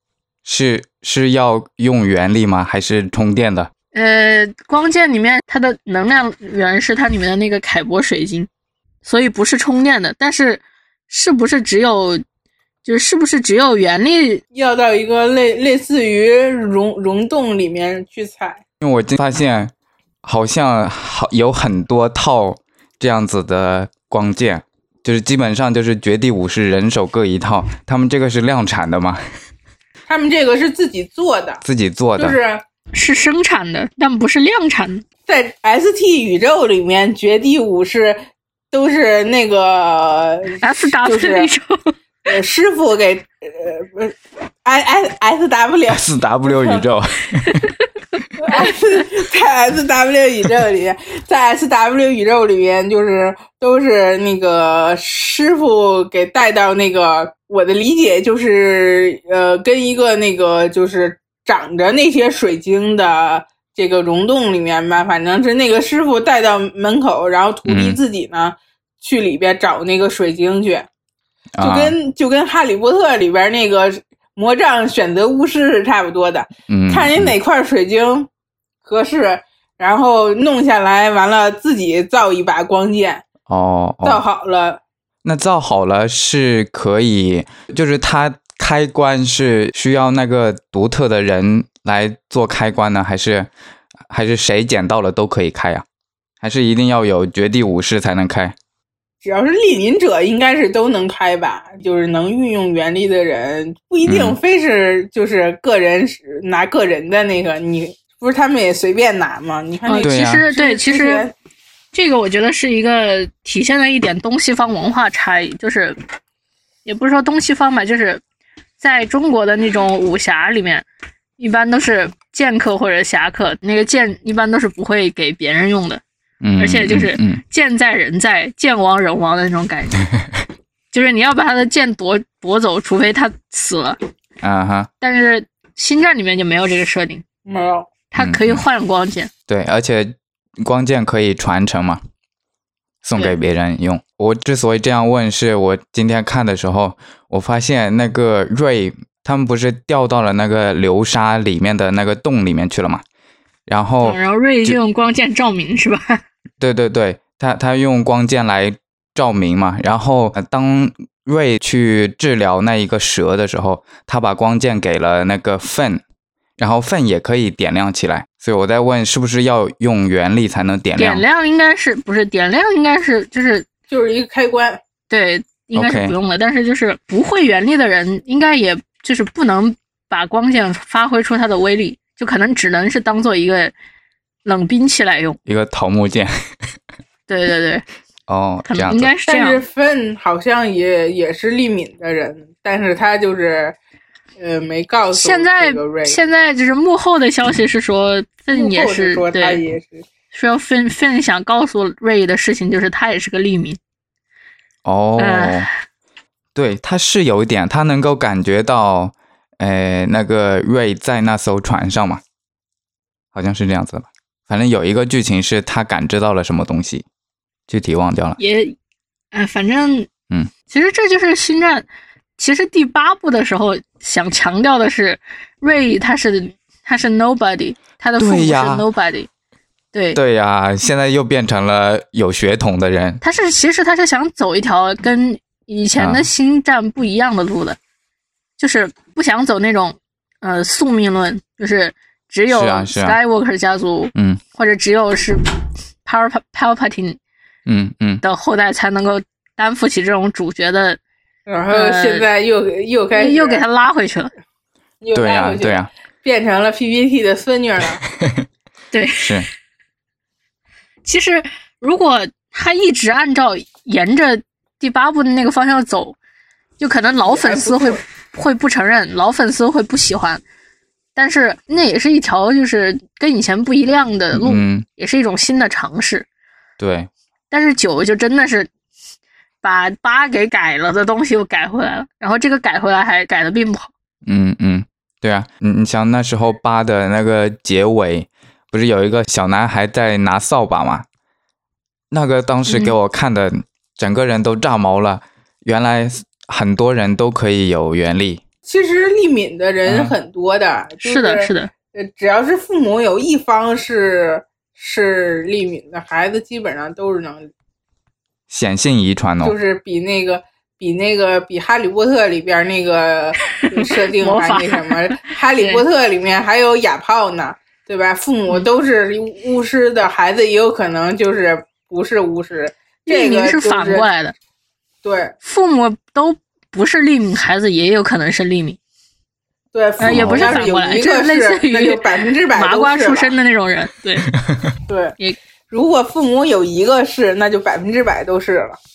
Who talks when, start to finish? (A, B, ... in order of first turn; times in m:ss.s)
0:00.4-0:03.7 A
0:03.9-0:08.5 B
0:09.0-0:12.2 B
0:12.8-0:14.4 B
0:14.5-0:18.6 C
0:18.8-0:19.7 A
0:20.2-0:29.2 A
0:30.1-0:31.6 C
0:31.6-0:32.4 A
0:32.2-0:32.6 C
0:32.9-0:35.0 B
0:35.3-0:38.2 C
0:38.7-0:41.5 C
0:40.6-0:41.9 B
0:42.2-0:46.8 C
0:45.9-0:47.7 A
0:47.4-0:47.7 B
0:48.4-1:10.9 C
1:07.7-1:08.0 A
1:11.6-1:12.0 A
1:11.6-1:18.3 C
1:16.7-1:17.3 A
1:18.8-1:23.2 C
1:23.5-1:24.2 A
1:24.0-1:24.8 C
1:25.2-1:33.5 A
1:34.1-1:35.8 A
1:36.4-1:38.6 A
1:39.2-1:51.3 C
1:44.0-1:44.4 A
1:49.8-1:51.3 B
1:50.0-1:50.5 A
1:51.9-1:56.0 B
1:56.8-1:58.2 B
1:58.8-2:00.8 B
2:01.4-2:06.0 B
2:06.4-2:07.4 A
2:06.6-2:10.0 B
2:10.9-2:14.0 B
2:14.4-2:14.9 A
2:15.0-2:17.2 B
2:17.4-2:17.9 C
2:18.1-2:19.3 B
2:18.2-2:18.6 A
2:19.5-2:22.0 A
2:23.0-2:33.0 A
2:33.7-2:34.8 A
2:34.0-2:36.2 B
2:36.6-2:46.0 A
2:46.6-2:51.2 A
2:51.0-2:53.7 B
2:53.9-2:54.8 C
2:55.1-3:03.7 B
2:55.7-2:56.1 A
3:04.4-3:05.4 B
3:05.5-3:06.3 A
3:07.3-3:07.8 B
3:08.3-3:09.1 A
3:08.6-3:09.6 B
3:09.3-3:13.8 C
3:14.4-3:16.2 C
3:15.1-3:19.6 B
3:18.5-3:20.0 C
3:20.3-3:23.8 B
3:24.8-3:25.7 A
3:25.2-3:25.7 B
3:26.5-3:32.2 A
3:33.3-3:37.0 A
3:37.7-3:38.4 A
3:38.4-3:38.8 B
3:39.3-3:40.1 B
3:40.7-3:41.8 B
3:42.4-3:49.3 B
3:48.2-3:48.8 A
3:49.9-3:50.2 B
3:50.1-3:53.2 A
3:53.2-3:57.8 B
3:56.0-3:56.3 A
3:58.6-4:05.4 B
4:02.5-4:03.2 A
4:04.1-4:04.4 A
4:06.0-4:07.2 B
4:07.6-4:08.2 A
4:08.2-4:11.0 B
4:11.5-4:13.6 C
4:11.7-4:12.2 B
4:13.1-4:14.3 B
4:15.0-4:18.0 C
4:15.1-4:15.9 A
4:18.2-4:18.4 A
4:18.9-4:19.3 B
4:19.2-4:19.5 A
4:21.0-4:26.2 B
4:26.8-4:30.4 B
4:27.2-4:28.0 C
4:31.1-4:36.2 B
4:34.3-4:34.8 A
4:36.8-4:37.1 A
4:37.5-4:38.7 B
4:39.6-4:43.9 B
4:44.2-4:51.0 A
4:52.1-4:58.4 A
4:52.7-4:52.9 B
4:58.6-5:07.5 C
4:59.8-5:00.1 A
5:01.0-5:01.7 B
5:08.5-5:09.6 A
5:09.4-5:24.1 C
5:13.6-5:15.8 B
5:23.0-5:24.3 B
5:25.0-5:25.3 C
5:25.4-5:28.8 B
5:29.7-5:33.4 C
5:30.0-5:34.3 B
5:30.0-5:30.5 A
5:34.3-5:34.8 A
5:34.9-5:35.2 C
5:35.7-5:38.8 C